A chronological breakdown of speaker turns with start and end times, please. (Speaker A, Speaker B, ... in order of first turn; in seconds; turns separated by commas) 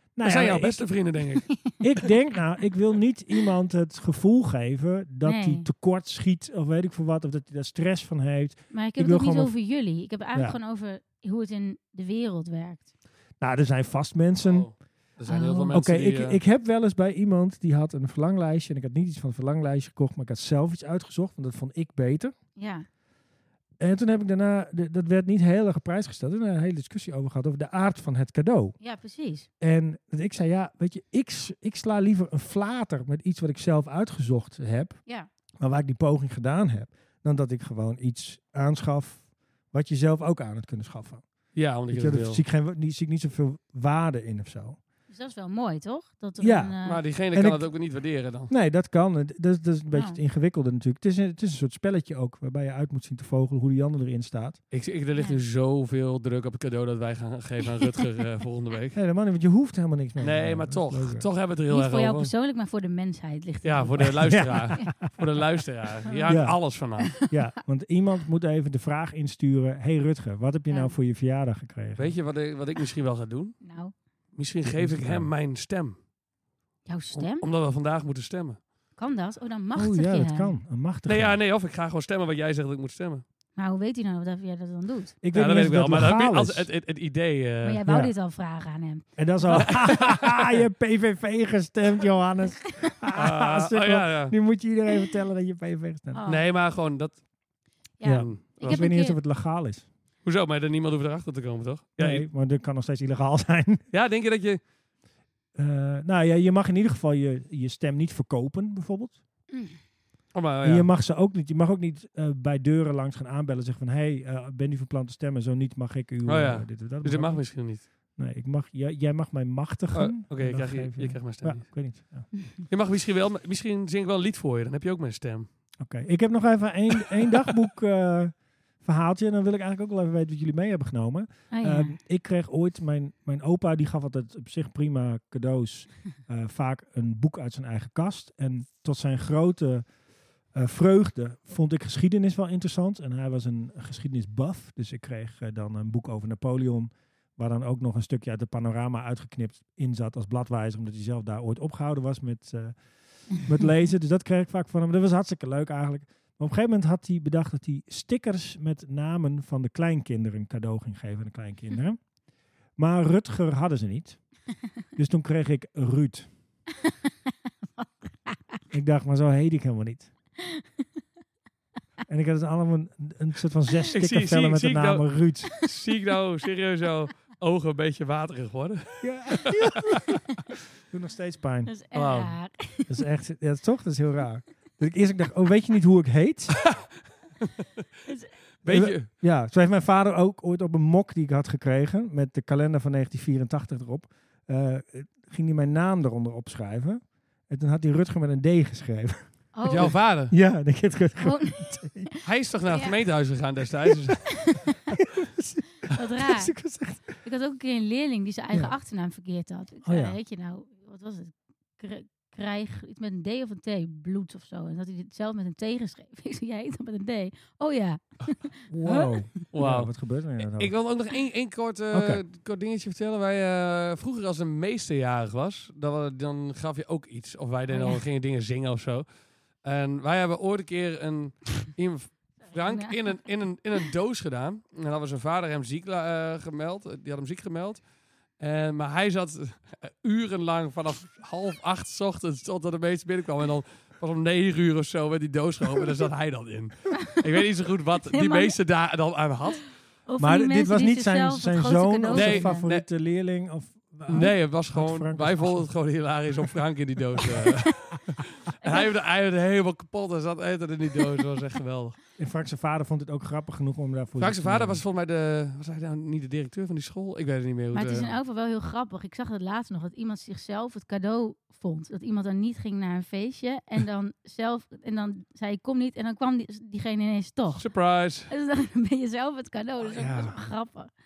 Speaker A: 0.1-0.9, Speaker B: 0.2-1.5, Speaker A: 1.8-9.5, Speaker C: 5.2-5.7, Speaker C: 8.7-12.9, Speaker A: 13.4-14.7, Speaker B: 14.4-16.4, Speaker C: 15.3-15.7, Speaker A: 15.7-22.3, Speaker C: 22.6-22.9, Speaker A: 23.8-28.8, Speaker C: 28.8-29.5, Speaker A: 29.6-35.0, Speaker A: 35.6-41.2, Speaker B: 41.5-42.4, Speaker A: 41.9-44.8, Speaker C: 45.1-47.0, Speaker A: 46.4-46.7, Speaker B: 46.8-48.5, Speaker A: 47.3-47.7, Speaker A: 48.5-54.6, Speaker C: 49.9-50.2, Speaker B: 54.7-59.0, Speaker A: 58.9-61.2, Speaker B: 60.2-62.3, Speaker C: 61.7-64.9, Speaker B: 63.6-67.2, Speaker A: 64.0-65.1, Speaker C: 66.1-66.4, Speaker A: 66.2-66.6, Speaker A: 67.2-72.1, Speaker B: 72.0-73.6, Speaker C: 73.6-73.9, Speaker B: 74.3-76.0, Speaker A: 74.6-75.3, Speaker C: 76.8-77.5, Speaker B: 77.1-78.6, Speaker C: 78.9-80.5, Speaker A: 79.8-81.4, Speaker B: 81.0-83.2, Speaker C: 83.5-85.1, Speaker A: 85.2-86.7, Speaker B: 85.3-87.8, Speaker C: 87.6-89.9, Speaker A: 87.8-88.1, Speaker A: 89.2-96.2, Speaker B: 89.5-90.6, Speaker B: 93.1-94.3, Speaker C: 96.1-96.5, Speaker B: 96.2-97.2, Speaker C: 98.0-99.2, Speaker A: 98.0-99.8, Speaker B: 98.1-98.6, Speaker B: 100.2-102.2, Speaker A: 102.0-103.8, Speaker B: 103.9-104.6, Speaker A: 105.5-109.2, Speaker C: 109.5-109.8, Speaker B: 110.3-110.9, Speaker A: 110.6-122.3, Speaker B: 116.2-117.8, Speaker B: 119.9-121.9, Speaker B: 122.7-125.5, Speaker A: 125.8-139.8, Speaker C: 131.5-131.9, Speaker A: 140.5-162.0, Speaker A: 162.8-164.2, Speaker A: 164.9-166.3, Speaker C: 167.8-168.6, Speaker A: 168.7-170.1, Speaker A: 172.1-175.6, Speaker B: 173.9-175.0, Speaker B: 175.6-180.0, Speaker A: 179.0-180.2, Speaker A: 180.9-181.7, Speaker C: 181.7-182.9, Speaker B: 181.9-182.3, Speaker A: 182.9-186.6, Speaker B: 188.6-189.1, Speaker A: 188.7-202.1, Speaker C: 199.5-199.9, Speaker B: 199.7-200.3, Speaker C: 201.2-202.9, Speaker B: 202.2-204.2, Speaker A: 204.9-207.1, Speaker C: 205.9-206.6, Speaker C: 207.2-219.0, Speaker A: 209.8-210.2, Speaker A: 218.7-220.7, Speaker B: 219.5-229.1, Speaker A: 221.9-222.2, Speaker C: 227.7-228.0, Speaker B: 229.6-237.8, Speaker C: 232.5-233.2, Speaker B: 238.4-249.7, Speaker C: 248.1-248.6, Speaker C: 250.1-252.6, Speaker A: 250.2-255.7, Speaker B: 252.1-252.8, Speaker B: 254.1-262.0, Speaker C: 258.6-258.9, Speaker A: 262.2-264.8, Speaker B: 264.2-268.1, Speaker C: 267.7-277.7, Speaker B: 277.6-278.3, Speaker C: 278.3-280.9, Speaker A: 279.8-280.4